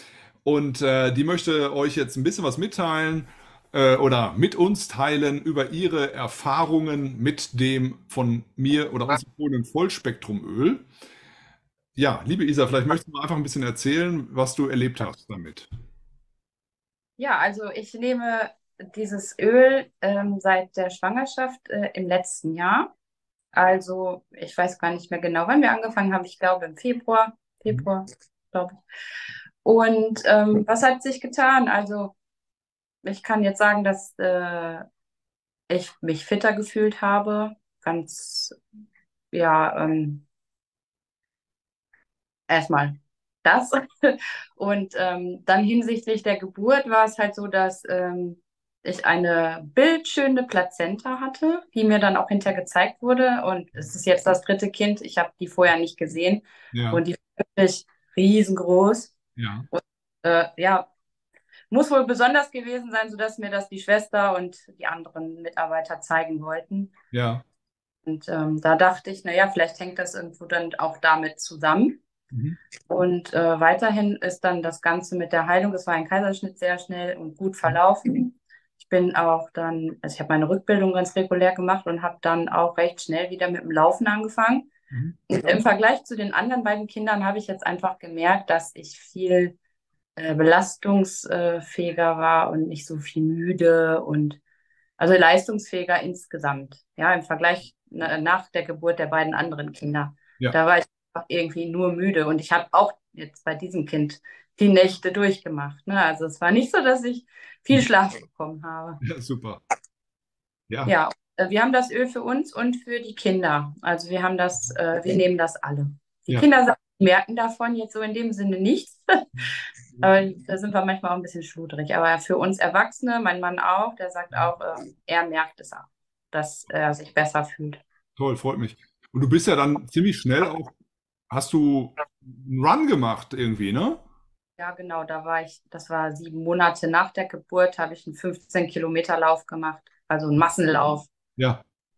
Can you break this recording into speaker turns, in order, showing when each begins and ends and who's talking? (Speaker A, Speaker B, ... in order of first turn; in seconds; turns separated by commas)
Speaker A: 0.4-10.8, Speaker A: 11.9-15.7, Speaker B: 17.2-22.9, Speaker B: 23.5-28.8, Speaker B: 29.6-32.1, Speaker B: 33.0-34.8, Speaker B: 35.7-38.6, Speaker B: 39.3-40.2, Speaker B: 42.5-59.1, Speaker A: 56.7-57.0, Speaker A: 59.4-59.6, Speaker B: 59.7-60.9, Speaker B: 61.7-66.9, Speaker A: 67.1-67.4, Speaker B: 68.0-72.0, Speaker A: 72.3-72.6, Speaker B: 72.9-84.7, Speaker B: 85.3-89.5, Speaker B: 90.2-94.4, Speaker B: 95.0-109.0, Speaker A: 109.0-109.6, Speaker B: 110.8-119.3, Speaker B: 120.0-127.8, Speaker A: 128.2-130.7, Speaker A: 131.3-134.0, Speaker B: 134.6-141.1, Speaker A: 141.4-141.6